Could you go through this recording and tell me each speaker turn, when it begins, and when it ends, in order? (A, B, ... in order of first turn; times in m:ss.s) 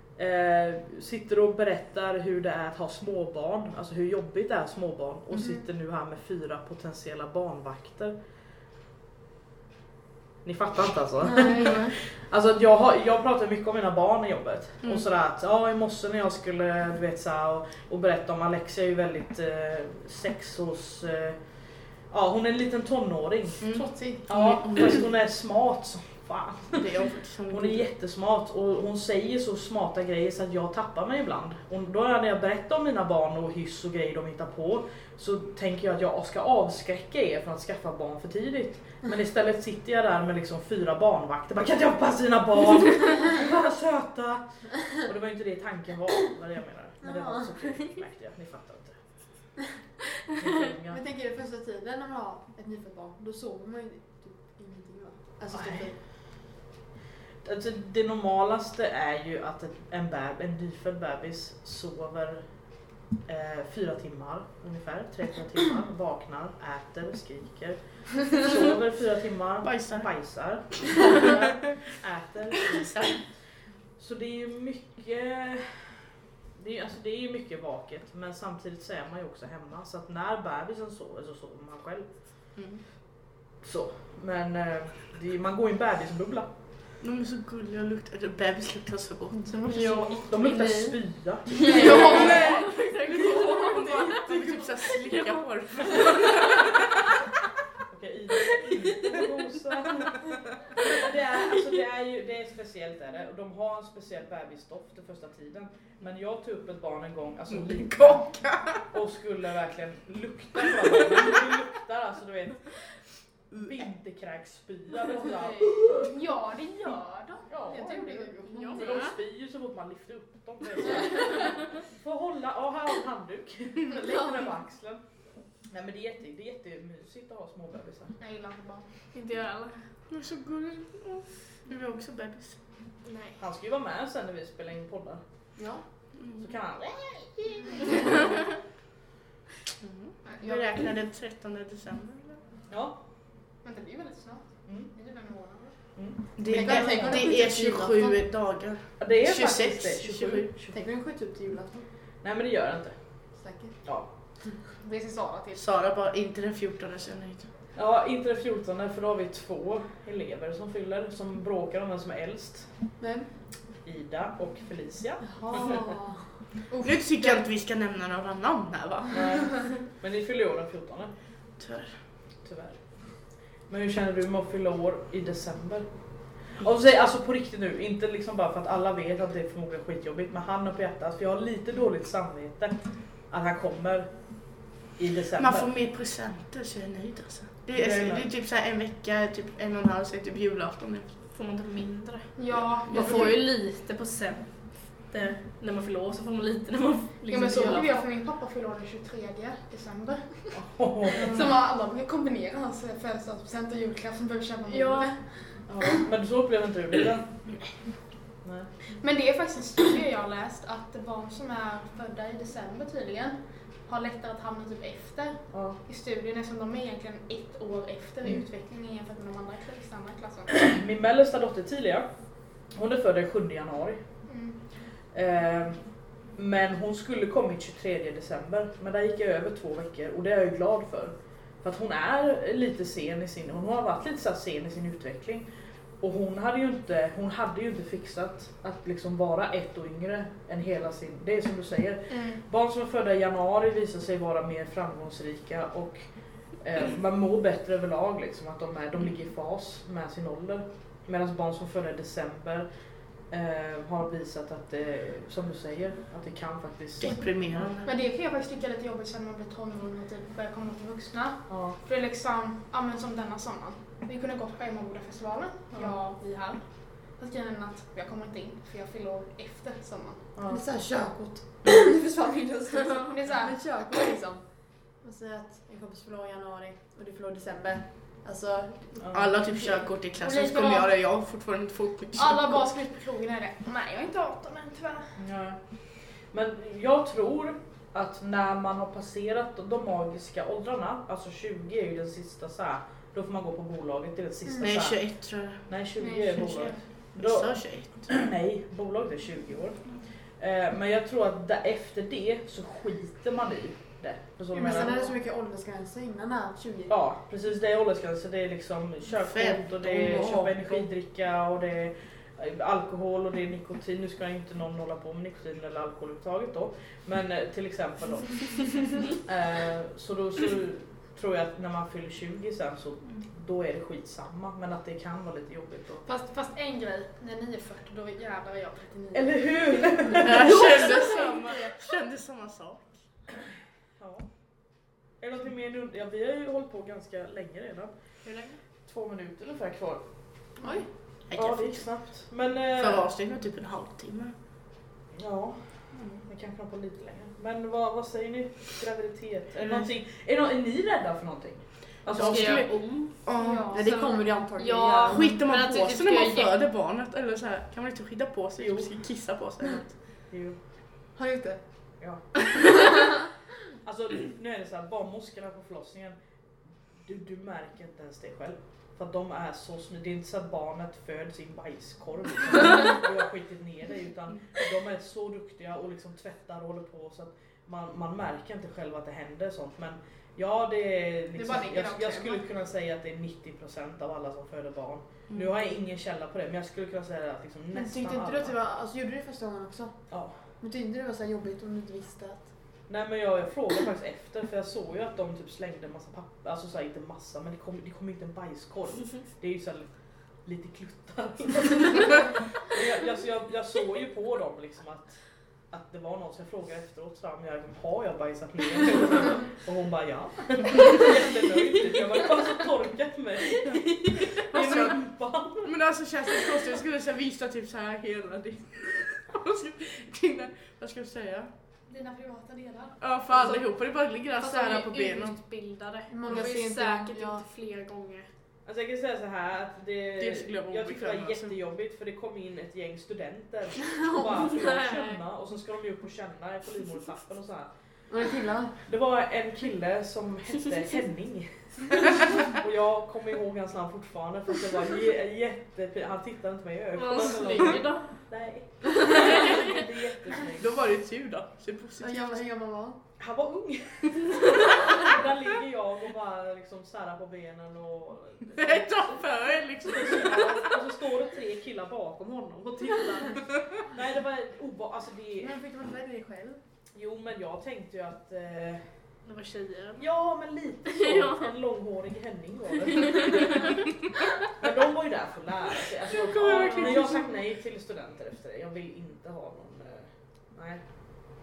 0:00.2-0:08.1 A
0:10.4-0:21.4 A
0:11.2-0:12.0 B
0:22.1-0:23.7 A
0:23.6-0:25.0 C
0:23.7-0:24.2 D
0:24.3-0:26.8 A
0:26.7-0:27.9 C
0:27.5-0:49.0 A
0:47.0-0:47.5 B
0:50.4-0:51.0 A
0:50.9-0:56.0 B
0:55.5-0:55.9 A
0:57.4-1:13.3 A
1:09.6-1:10.1 C
1:11.0-1:11.4 C
1:12.8-1:13.2 C
1:14.0-1:22.1 A
1:22.6-1:22.8 C
1:23.6-1:26.5 A
1:27.0-1:29.5 C
1:29.4-1:30.3 B
1:29.6-1:31.0 E
1:29.8-1:32.4 A
1:31.5-1:36.6 E
1:31.6-1:32.4 B
1:31.7-1:32.4 D
1:31.7-1:36.8 C
1:37.9-1:52.8 A
1:47.5-1:48.8 C
1:53.5-1:56.1 A
1:56.0-1:58.8 D
1:57.5-2:05.0 A
1:57.7-1:58.8 B
1:58.4-1:59.2 E
2:05.6-2:08.2 A
2:08.2-2:08.9 D
2:09.1-2:09.8 E
2:10.1-2:12.6 C
2:13.0-2:13.4 E
2:13.4-2:15.2 A
2:15.6-2:15.8 B
2:16.2-2:16.5 C
2:16.4-2:18.0 A
2:19.8-2:22.4 C
2:20.2-2:20.9 D
2:22.7-2:23.0 A
2:23.6-2:25.8 D
2:24.6-2:24.9 A
2:26.0-2:26.4 A
2:26.4-2:30.5 C
2:26.5-2:28.2 B
2:26.8-2:27.1 D
2:29.0-2:30.8 A
2:30.7-2:31.8 B
2:32.2-2:33.0 A
2:33.3-2:33.8 B
2:34.7-2:35.6 D
2:35.5-2:37.5 C
2:37.7-2:42.7 A
2:43.0-2:43.3 B
2:43.8-2:45.7 A
2:45.3-2:46.2 B
2:46.7-2:47.4 D
2:46.8-2:49.5 C
2:49.1-2:51.1 A
2:51.6-2:52.0 C
2:52.4-2:55.9 A
2:56.4-3:04.4 A
3:04.9-3:05.7 A
3:05.4-3:11.1 C
3:07.7-3:08.3 A
3:11.2-3:18.0 E
3:12.4-3:13.4 D
3:12.9-3:13.3 C
3:17.3-3:20.6 D
3:20.5-3:21.5 A
3:21.1-3:25.6 D
3:24.7-3:25.2 E
3:25.7-3:27.6 A
3:28.4-3:28.7 A
3:29.0-3:40.5 D
3:35.5-3:35.8 A
3:40.5-3:42.1 A
3:42.7-3:44.0 A
3:44.3-3:44.6 D
3:45.1-3:45.8 A
3:46.3-3:55.5 A
3:56.0-4:06.0 A
4:02.1-4:02.4 D
4:06.6-4:12.7 A
4:13.3-4:17.2 A
4:17.0-4:17.9 C
4:17.8-4:30.2 D
4:21.5-4:21.8 A
4:25.8-4:26.1 E
4:30.4-4:30.6 A
4:30.5-4:39.0 B
4:32.7-4:33.7 D
4:39.0-4:39.3 A
4:39.1-4:42.6 C
4:40.2-4:40.9 D
4:42.1-4:45.2 D
4:45.2-5:05.1 A
4:54.6-4:55.7 C
4:56.0-4:56.8 D
4:57.1-4:58.1 C
5:04.5-5:06.9 B
5:06.9-5:26.0 A
5:09.2-5:10.8 C
5:26.0-5:31.3 D
5:29.1-5:30.7 A
5:30.2-5:32.9 C
5:34.0-5:34.3 A
5:35.2-5:37.9 A
5:38.8-5:40.0 A
5:40.6-5:40.8 B
5:41.3-5:41.9 C
5:41.3-5:43.0 A
5:42.7-5:44.3 C
5:45.2-5:52.6 A
5:52.1-5:53.7 C
5:52.1-5:56.5 E
5:53.3-5:53.8 D
5:53.7-5:55.3 B
5:55.1-5:59.9 C
5:58.6-5:58.9 A
6:00.3-6:00.6 A
6:01.1-6:01.6 B
6:03.8-6:06.1 A
6:07.0-6:28.5 A
6:21.3-6:22.4 D
6:27.7-6:30.0 B
6:30.6-6:32.5 B
6:32.9-6:39.9 A
6:40.4-6:45.2 A
6:45.7-6:55.7 A
6:54.5-6:55.0 C
6:55.6-7:01.5 C
7:01.9-7:03.0 D
7:03.0-7:05.4 C
7:04.4-7:08.3 E
7:06.1-7:07.4 B
7:08.6-7:17.7 A
7:10.2-7:11.5 C
7:14.0-7:15.2 E
7:18.1-7:18.7 B
7:18.8-7:30.7 A
7:26.9-7:28.1 E
7:28.9-7:29.8 E
7:30.6-7:32.4 C
7:32.0-7:33.0 B
7:33.2-7:45.5 A
7:38.5-7:40.8 C
7:45.4-7:46.6 B
7:46.9-7:48.9 A
7:49.2-7:50.0 E
7:50.0-7:53.8 A
7:50.9-7:51.5 E
7:52.9-7:53.8 E
7:54.6-8:00.8 A
7:56.3-7:57.2 C
7:56.3-7:57.2 E